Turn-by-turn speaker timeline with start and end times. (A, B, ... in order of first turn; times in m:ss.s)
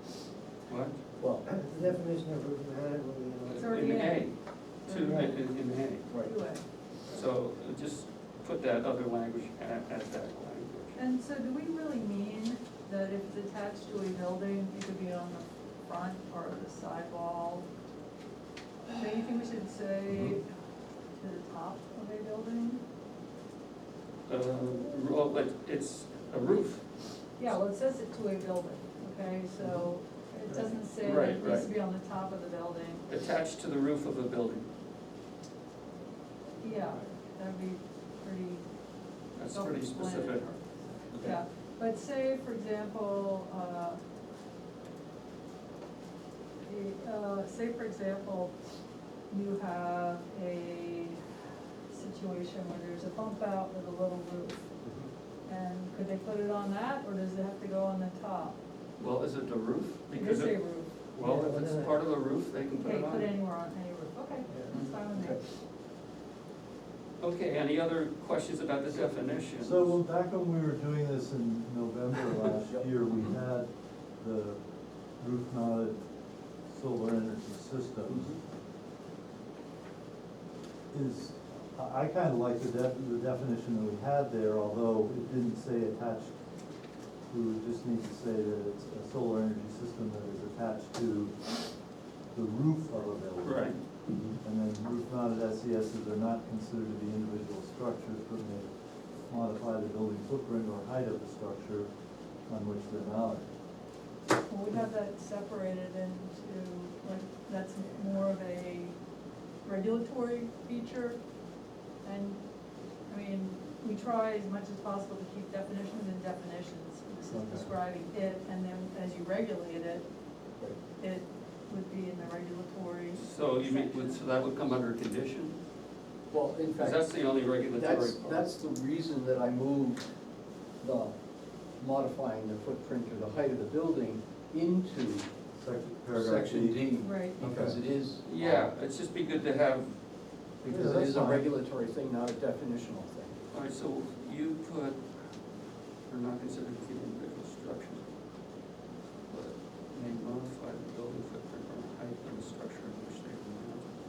0:00.7-0:01.0 A
0:01.2-0:01.4 B
0:01.4-0:03.6 C
0:03.5-0:06.1 A
0:03.6-0:06.6 D
0:06.1-0:06.4 B
0:07.0-0:11.0 A
0:10.9-0:17.7 D
0:18.9-0:20.5 D
0:21.2-0:22.8 D
0:24.2-0:26.9 A
0:27.4-0:33.1 D
0:31.0-0:31.7 A
0:33.1-0:34.7 A
0:36.6-0:38.6 D
0:39.3-0:40.5 A
0:39.4-0:44.0 D
0:41.1-0:41.4 A
0:46.6-0:48.5 D
0:49.3-0:51.2 D
0:51.9-0:54.7 D
0:54.8-0:55.1 B
0:55.4-0:58.6 D
0:59.0-1:03.3 A
1:00.1-1:00.9 D
1:01.2-1:02.0 C
1:02.7-1:05.4 D
1:04.5-1:05.4 C
1:07.2-1:10.0 A
1:09.6-1:14.6 E
1:12.7-1:13.3 B
1:15.2-1:16.0 E
1:16.7-1:18.4 E
1:18.1-1:18.4 B
1:20.9-1:26.3 E
1:27.3-1:41.9 E
1:33.4-1:33.8 A
1:42.4-1:43.5 E
1:44.4-1:48.9 D
1:49.6-1:51.2 D
1:52.0-1:52.4 D
1:53.1-2:00.0 D
1:57.3-1:57.7 E
2:01.0-2:04.2 D
2:03.1-2:05.6 A
2:06.3-2:07.0 B
2:06.7-2:08.5 A
2:07.7-2:10.0 B
2:10.8-2:11.1 B
2:11.8-2:15.3 B
2:15.6-2:16.8 E
2:16.1-2:18.7 B
2:17.0-2:17.4 D
2:17.4-2:17.8 E
2:18.2-2:19.9 A
2:20.6-2:23.4 B
2:20.6-2:21.4 E
2:23.5-2:25.0 A
2:26.1-2:28.0 A
2:29.3-2:33.9 A